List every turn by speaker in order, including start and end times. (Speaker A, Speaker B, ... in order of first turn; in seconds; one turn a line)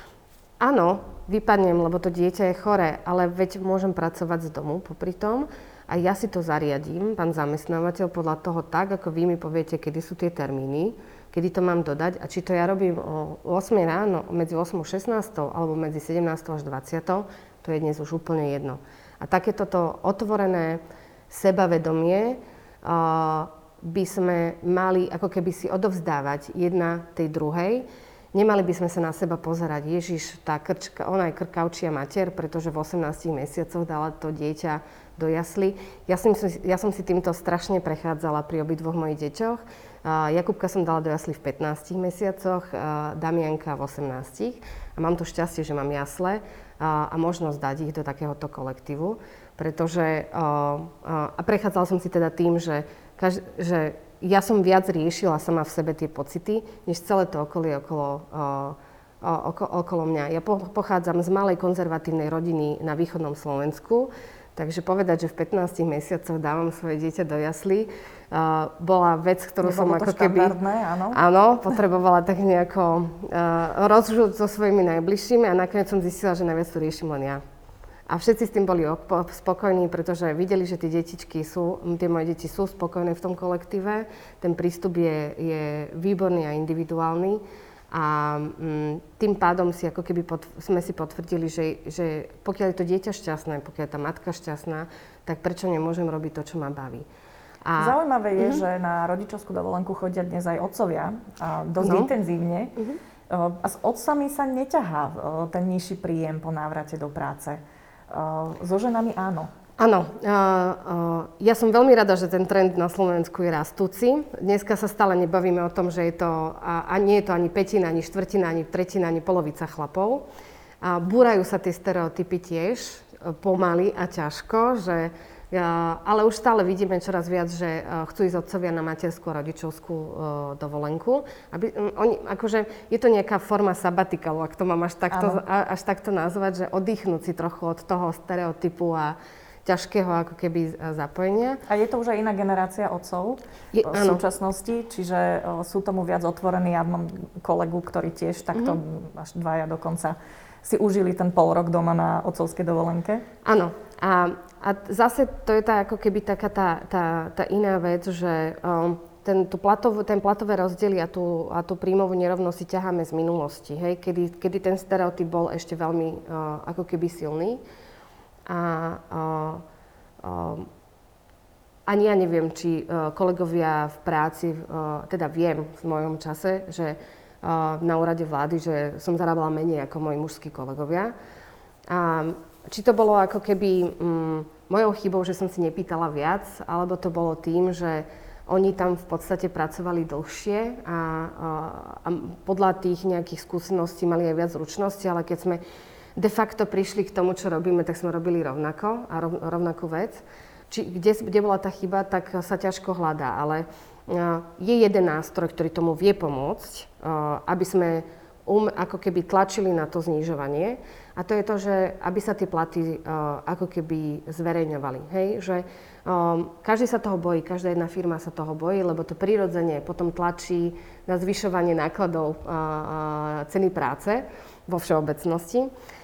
Speaker A: 0.6-70.6
Speaker B: 69.6-71.2
Speaker A: 71.1-77.4
Speaker A: 78.1-97.1
Speaker A: 97.7-98.6
Speaker B: 97.8-102.8
Speaker A: 101.8-102.1
Speaker B: 103.3-109.5
Speaker A: 109.8-120.2
Speaker A: 120.8-141.6
Speaker B: 135.1-135.4
Speaker B: 141.7-153.2
Speaker A: 143.7-144.2
Speaker A: 153.4-167.6
Speaker A: 168.5-169.6
Speaker A: 170.2-170.7
Speaker A: 171.9-181.1
Speaker A: 181.9-195.6
Speaker A: 196.2-225.7